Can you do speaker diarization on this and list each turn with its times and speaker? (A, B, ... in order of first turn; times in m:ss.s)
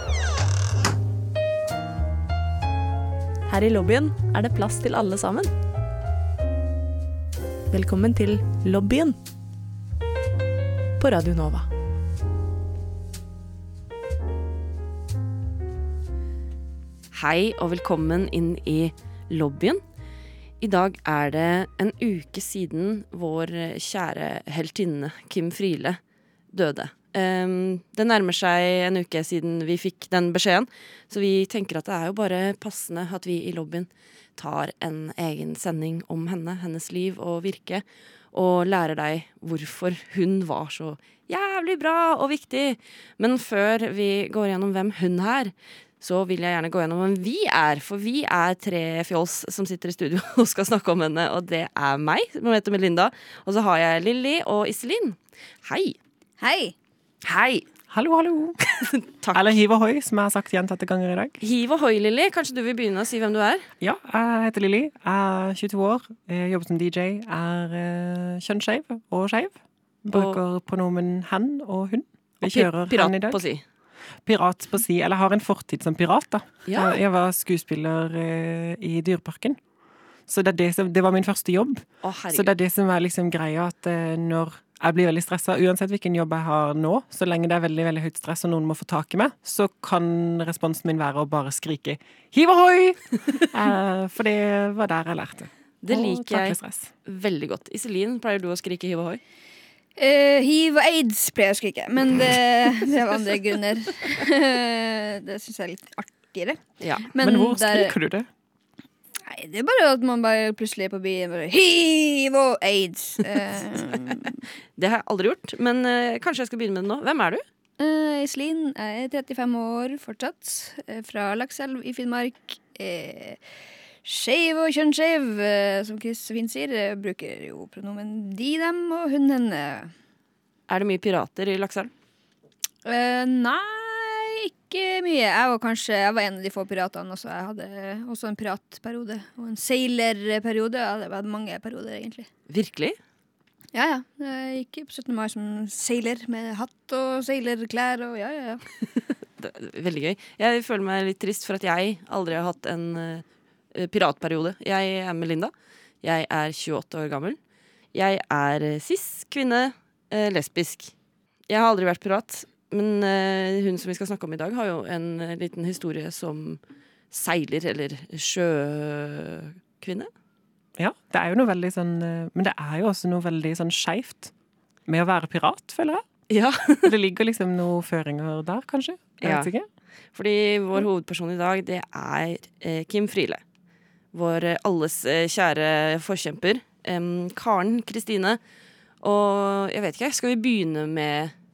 0:03.5-0:05.5 A
0:07.7-0:09.2 A
0:11.0-0:11.7 A
0:17.1-0:19.8 B
0:20.6-0:26.0 B
0:26.5-0:56.0 B
0:56.4-0:56.8 C
0:57.2-0:57.6 B
0:57.9-0:58.6 D
0:58.8-0:59.6 B
0:59.3-1:01.4 D
1:01.4-1:03.7 B
1:03.8-1:13.4 D
1:10.1-1:10.4 B
1:12.4-1:13.6 B
1:14.2-1:19.6 D
1:16.7-1:17.0 B
1:20.3-1:36.9 D
1:22.0-1:22.5 B
1:35.8-1:39.2 B
1:40.0-1:47.9 C
1:46.8-1:47.1 B
1:47.2-1:48.3 D
1:49.2-1:54.4 C
1:54.8-1:57.4 B
1:57.8-2:03.4 C
2:04.0-2:09.9 C
2:10.7-2:11.9 B
2:12.8-2:22.3 C
2:22.5-2:23.0 B
2:23.7-2:28.6 C
2:29.4-2:37.4 B
2:37.9-2:40.9 B
2:41.5-2:50.1 B
2:50.8-2:54.3 D
2:54.9-2:56.0 D
2:56.3-2:56.9 B
2:56.8-2:59.7 D
2:59.2-2:59.5 B
3:00.1-3:03.4 B
3:04.1-3:08.4 B
3:09.0-3:11.3 B